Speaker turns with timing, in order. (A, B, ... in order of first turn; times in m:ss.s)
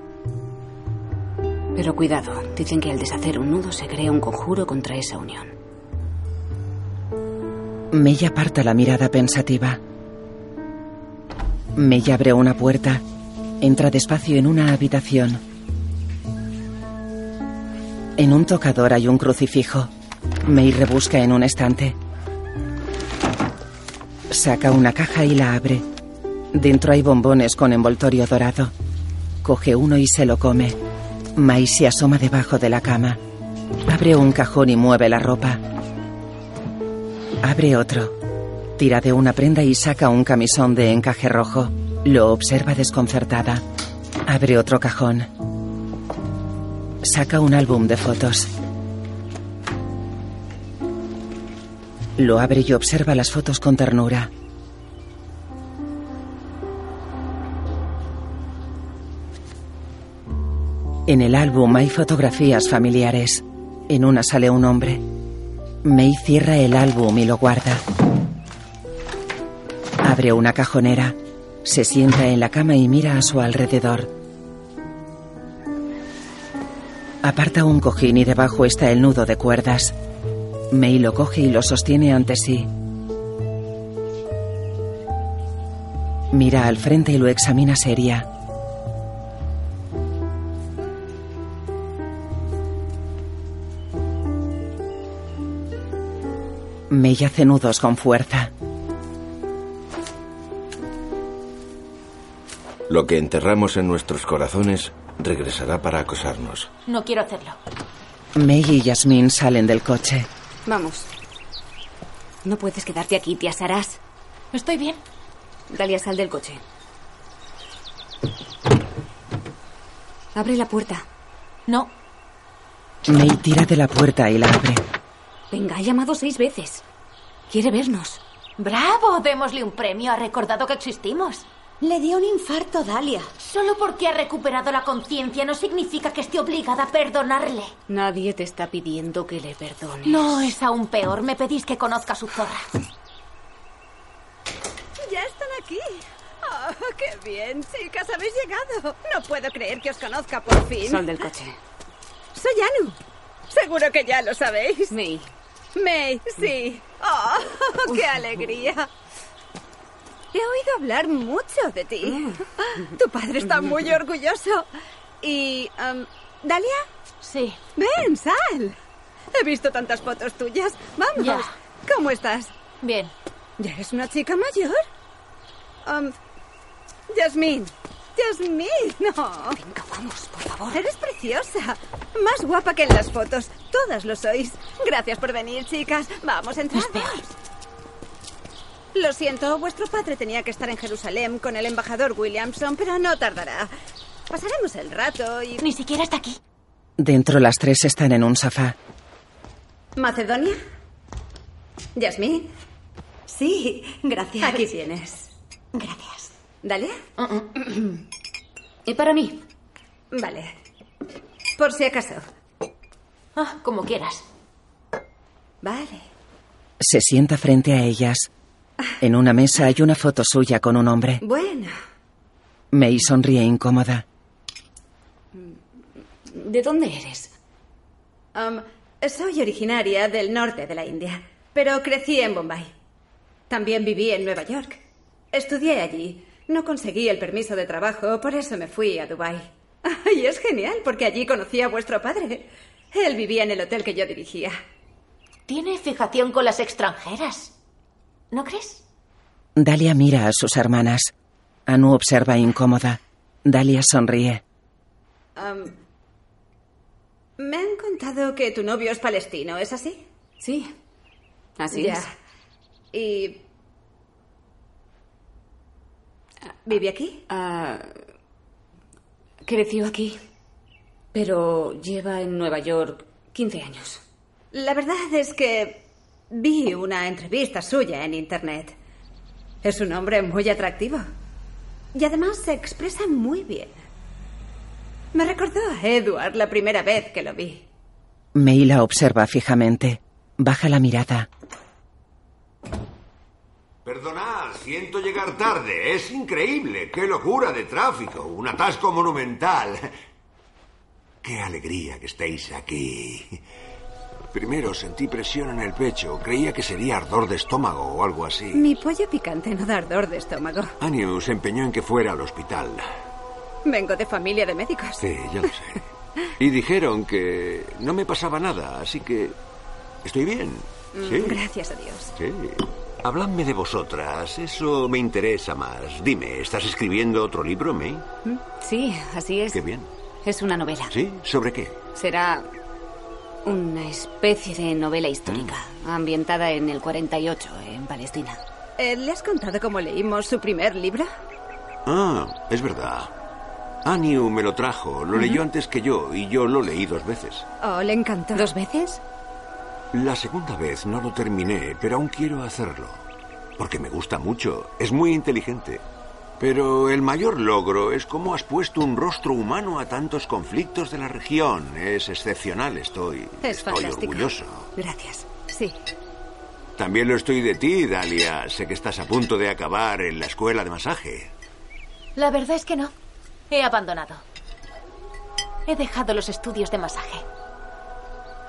0:01.8-0:05.5 A
0:07.9-0:09.8 B
0:11.8-0:13.0 B
0:13.6-0:15.4 B
0:18.2-0:19.9 B
0:20.4-0:22.0 B
0:24.3-0:25.8 B
0:26.5-0:28.7 B
0:29.4-0:30.8 B
0:31.4-0:33.2 B
0:33.9-0:35.6 B
0:37.4-0:38.2 B
0:38.8-0:43.6 B
0:44.2-0:45.3 B
0:47.0-0:48.5 B
0:52.2-0:54.3 B
1:01.1-1:05.0 B
1:05.8-1:07.8 B
1:10.0-1:14.1 B
1:17.2-1:20.0 B
1:20.7-1:22.7 B
1:26.3-1:28.3 B
1:36.9-1:38.5 B
1:42.9-1:46.7 C
1:46.9-1:47.6 D
1:48.4-1:50.3 B
1:50.7-1:51.1 A
1:52.4-1:54.0 A
1:54.5-1:55.0 D
1:55.7-1:56.6 A
2:00.4-2:01.1 A
2:01.7-2:01.9 D
2:03.0-2:04.8 B
2:05.5-2:06.8 A
2:07.5-2:08.2 A
2:08.6-2:11.5 D
2:11.8-2:13.3 E
2:13.4-2:17.7 D
2:17.9-2:20.3 A
2:20.0-2:22.7 D
2:25.0-2:31.2 F
2:30.8-2:31.6 A
2:32.4-2:33.0 F
2:33.5-2:35.0 F
2:34.9-2:35.3 A
2:35.8-2:38.9 F
2:40.3-2:44.7 F
2:42.0-2:42.4 A
2:45.2-2:46.9 F
2:47.2-2:47.6 D
2:47.8-2:48.8 F
2:49.3-2:52.5 F
2:51.2-2:51.5 D
2:52.8-2:53.1 D
2:53.6-2:54.8 F
2:55.8-2:56.1 F
2:57.1-2:59.6 F
2:59.5-3:00.8 A
3:00.7-3:07.3 F
3:06.8-3:07.1 D
3:08.9-3:13.7 F
3:14.3-3:15.6 F
3:15.6-3:16.4 D
3:17.0-3:18.8 B
3:20.0-3:20.6 F
3:22.0-3:22.5 F
3:23.3-3:24.7 E
3:24.4-3:25.3 F
3:25.8-3:26.3 E
3:26.6-3:27.0 F
3:27.2-3:27.8 D
3:28.9-3:29.4 A
3:30.1-3:30.5 F
3:31.6-3:32.2 F
3:33.4-3:34.2 D
3:35.6-3:36.0 F
3:36.8-3:38.3 B
3:39.0-3:41.2 B
3:41.2-3:41.7 F
3:42.7-3:44.0 B
3:46.3-3:47.3 A
3:48.4-3:52.7 F
3:53.5-3:54.8 F
3:55.3-4:04.6 F
4:05.5-4:07.5 D
4:08.3-4:08.8 D
4:09.6-4:11.1 B
4:11.7-4:14.4 B
4:15.4-4:15.8 F
4:17.4-4:20.0 F
4:20.4-4:20.7 A
4:21.6-4:22.1 A
4:21.7-4:22.1 F
4:22.9-4:23.4 F
4:26.7-4:27.2 F
4:27.3-4:28.0 A
4:29.4-4:30.2 A
4:31.1-4:34.0 A
4:34.5-4:38.8 F
4:39.6-4:41.1 F
4:41.9-4:43.8 F
4:45.1-4:47.6 F
4:48.4-4:51.3 B
4:53.8-4:59.9 G
5:01.2-5:03.4 G
5:04.3-5:08.7 G
5:08.5-5:10.7 F
5:10.8-5:12.9 G
5:13.6-5:15.0 F
5:15.0-5:15.8 G
5:16.4-5:19.4 G
5:20.0-5:21.4 G
5:20.9-5:22.1 F
5:22.2-5:28.0 G
5:28.2-5:29.6 A
5:29.5-5:29.9 G
5:30.2-5:30.9 A
5:30.9-5:31.8 G
5:32.0-5:32.5 A
5:33.4-5:38.4 A
5:35.3-5:35.5 G
5:38.8-5:41.1 F
5:41.9-5:43.1 G
5:43.8-5:47.5 G
5:47.6-5:48.6 F
5:48.3-5:49.0 A
5:49.9-5:53.0 G
5:53.6-5:55.8 G
5:56.4-6:04.7 G
6:03.4-6:04.3 F
6:04.8-6:05.3 A
6:05.3-6:05.8 F
6:06.8-6:11.3 G
6:12.2-6:12.9 D
6:13.5-6:14.2 D
6:15.7-6:17.2 D